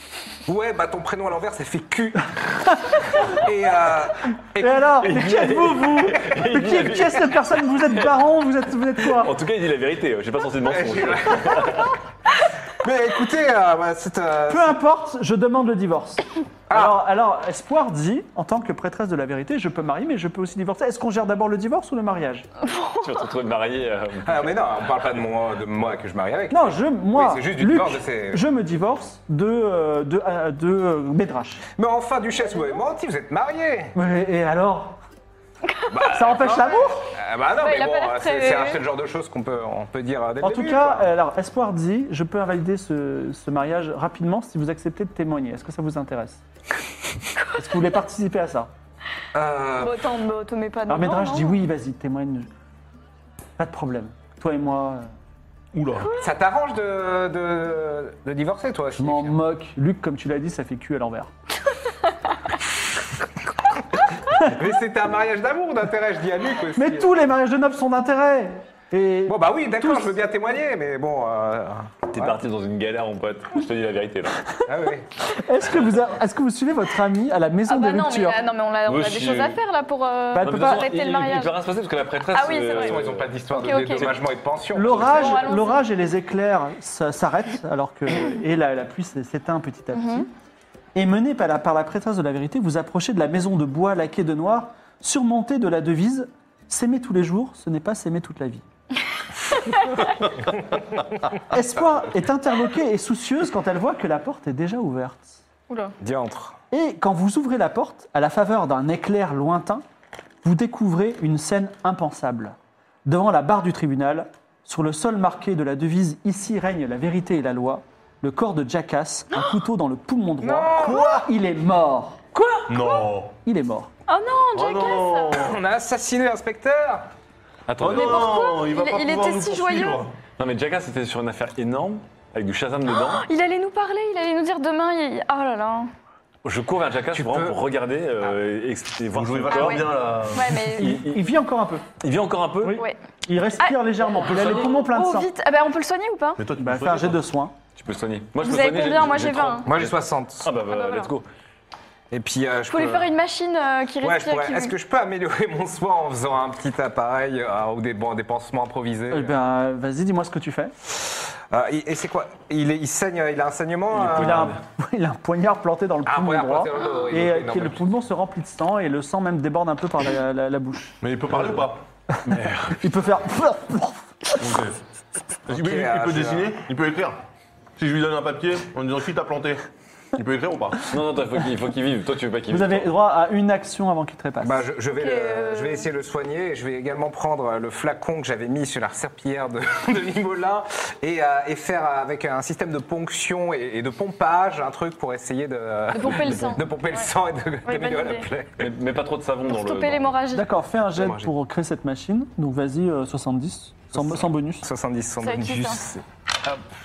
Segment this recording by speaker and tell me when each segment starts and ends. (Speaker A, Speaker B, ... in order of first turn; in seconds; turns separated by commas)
Speaker A: 0.5-5.1, Speaker B: 4.6-9.3, Speaker C: 5.0-8.1, Speaker C: 9.0-12.0, Speaker A: 10.6-11.9, Speaker A: 12.8-14.8, Speaker B: 14.5-22.5, Speaker A: 16.7-17.0, Speaker D: 22.6-23.2, Speaker C: 23.0-24.6, Speaker A: 24.2-28.4, Speaker B: 26.5-31.6, Speaker A: 31.8-33.9, Speaker B: 33.9-35.0, Speaker D: 35.7-36.0, Speaker A: 35.9-41.1, Speaker B: 36.1-37.1, Speaker D: 37.6-38.8, Speaker B: 40.4-46.4, Speaker D: 47.4-47.8, Speaker B: 47.5-48.7, Speaker A: 49.3-50.1, Speaker D: 49.8-51.6, Speaker B: 50.9-52.5, Speaker B: 53.6-55.1, Speaker E: 55.7-56.1, Speaker A: 56.2-59.4, Speaker B: 59.0-61.3, Speaker A: 64.4-67.1, Speaker B: 66.7-70.1, Speaker A: 69.3-72.4, Speaker C: 72.1-74.6, Speaker A: 74.6-75.1, Speaker B: 75.3-78.4, Speaker D: 77.7-81.5, Speaker C: 78.8-79.6, Speaker B: 80.3-80.9, Speaker C: 80.3-83.4, Speaker D: 82.3-83.0, Speaker A: 82.7-85.5, Speaker D: 83.6-84.1, Speaker B: 84.7-90.3, Speaker D: 84.9-85.8, Speaker D: 89.9-90.3, Speaker B: 90.9-98.6, Speaker B: 101.5-105.4, Speaker D: 105.7-106.0, Speaker A: 106.0-106.6, Speaker B: 106.7-109.8, Speaker B: 110.4-122.2, Speaker A: 120.4-121.1, Speaker C: 122.3-122.7, Speaker E: 122.7-123.3, Speaker B: 123.4-123.9, Speaker D: 124.1-125.4, Speaker E: 124.5-125.6, Speaker A: 125.3-127.1, Speaker C: 127.7-128.3, Speaker E: 127.8-130.1, Speaker D: 127.9-130.1, Speaker C: 130.4-133.3, Speaker D: 132.9-135.9, Speaker C: 136.4-139.9, Speaker A: 137.1-137.6, Speaker E: 139.1-140.7, Speaker D: 139.5-141.0, Speaker B: 140.8-141.9, Speaker C: 140.8-141.2, Speaker C: 142.0-142.8, Speaker B: 142.6-145.3, Speaker D: 143.6-146.4, Speaker C: 144.2-144.7, Speaker E: 146.4-147.2, Speaker B: 146.6-147.5, Speaker C: 147.8-151.3, Speaker D: 148.4-149.7, Speaker A: 149.6-150.5, Speaker D: 150.7-151.1, Speaker A: 152.1-153.1, Speaker D: 152.7-154.7, Speaker A: 154.0-159.3, Speaker B: 159.1-160.7, Speaker A: 161.5-164.5, Speaker C: 163.9-164.6, Speaker B: 164.2-171.0, Speaker A: 166.0-167.8, Speaker E: 171.0-171.8, Speaker B: 172.1-174.4, Speaker C: 172.3-172.8, Speaker E: 174.4-174.8, Speaker E: 175.5-177.2, Speaker A: 175.5-176.5, Speaker E: 177.8-180.9, Speaker C: 180.9-182.9, Speaker B: 182.5-184.7, Speaker A: 184.4-198.7, Speaker D: 184.9-185.9, Speaker D: 195.9-197.1, Speaker C: 196.1-196.6, Speaker D: 197.7-198.3, Speaker C: 198.6-200.2, Speaker D: 199.5-200.5, Speaker B: 200.3-204.7, Speaker A: 200.9-201.3, Speaker A: 203.9-206.6, Speaker D: 205.2-205.8